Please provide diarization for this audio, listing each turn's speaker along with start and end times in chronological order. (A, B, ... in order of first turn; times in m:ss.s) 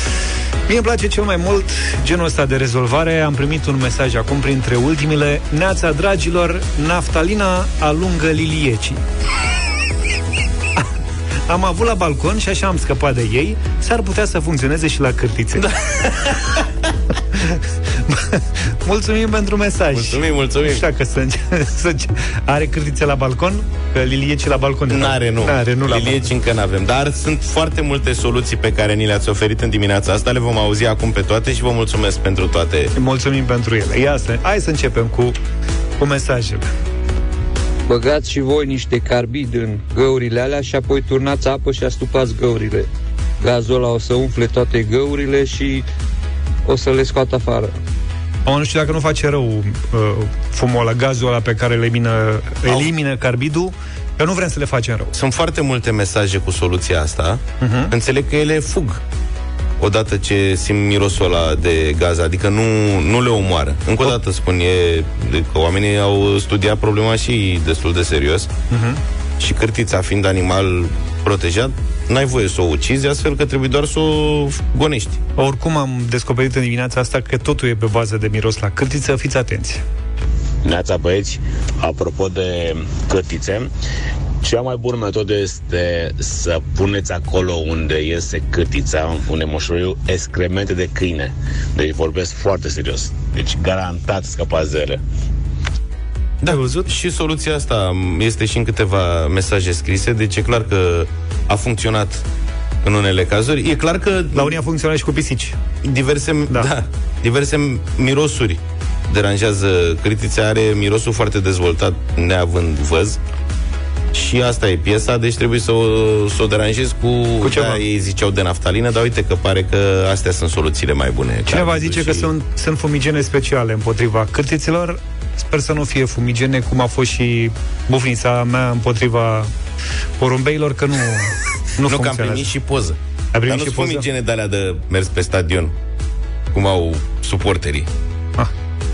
0:00.7-0:09.0 A
0:11.5-0:15.7 A
0:15.6-0:16.7 B
0:17.3-0:26.3 A
0:19.9-0:20.8 B
0:24.9-0:32.9 B
0:33.0-0:35.4 A
0:36.0-0:36.7 A
0:37.9-0:42.9 C
0:43.4-0:45.8 C
0:46.6-0:47.7 C
0:48.4-0:55.1 A
0:55.1-0:59.0 B
0:57.6-0:57.9 A
0:59.8-1:08.5 B
1:08.7-1:09.0 A
1:09.4-1:15.2 B
1:15.4-1:19.8 A
1:20.6-1:23.7 D
1:24.4-1:35.0 D
1:36.4-1:42.2 B
1:36.4-1:36.9 A
1:42.8-1:44.6 B
1:44.3-1:45.6 A
1:45.8-1:53.2 B
1:54.1-2:02.3 B
1:57.4-1:57.8 A
2:01.5-2:09.5 A
2:10.2-2:12.5 A
2:11.8-2:15.7 B
2:13.3-2:14.1 A
2:16.5-2:17.9 B